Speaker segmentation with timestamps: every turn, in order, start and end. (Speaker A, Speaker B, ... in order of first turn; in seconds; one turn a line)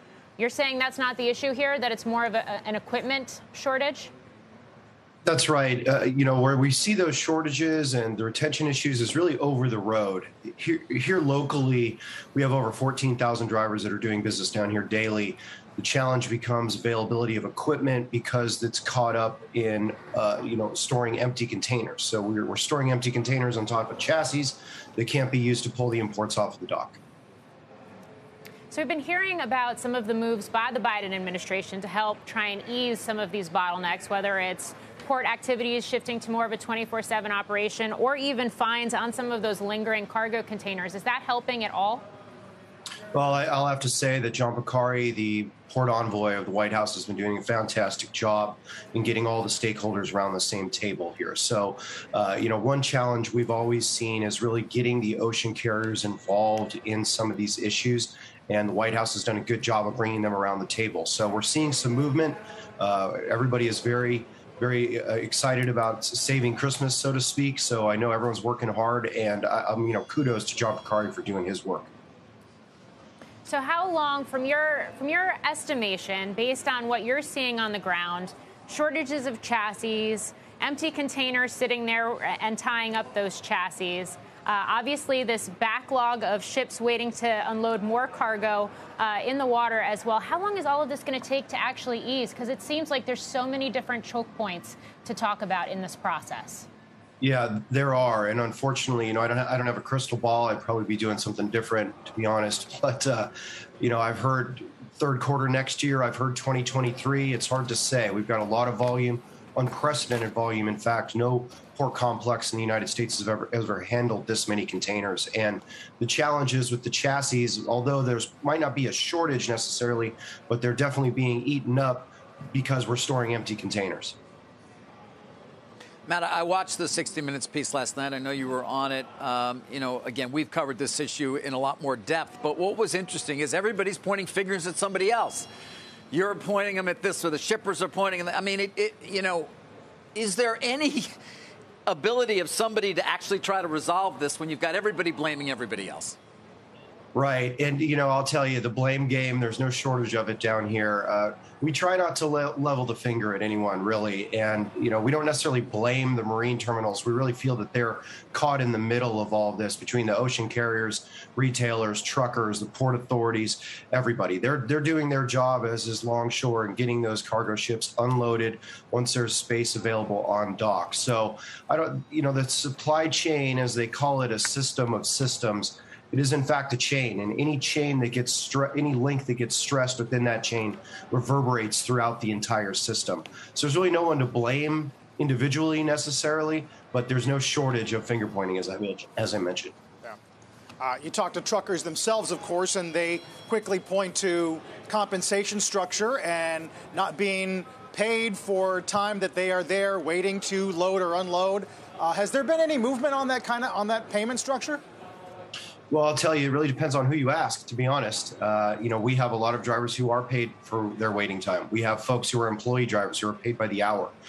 Speaker A: 0.4-4.1
Speaker B: 5.2-27.0
Speaker A: 28.7-42.0
Speaker B: 43.1-71.9
Speaker A: 73.5-96.7
Speaker B: 97.2-124.2
Speaker C: 126.1-135.5
Speaker C: 136.1-139.5
Speaker C: 140.2-141.1
Speaker C: 141.9-146.2
Speaker B: 147.1-189.8
Speaker D: 190.8-204.8
Speaker B: 205.9-214.2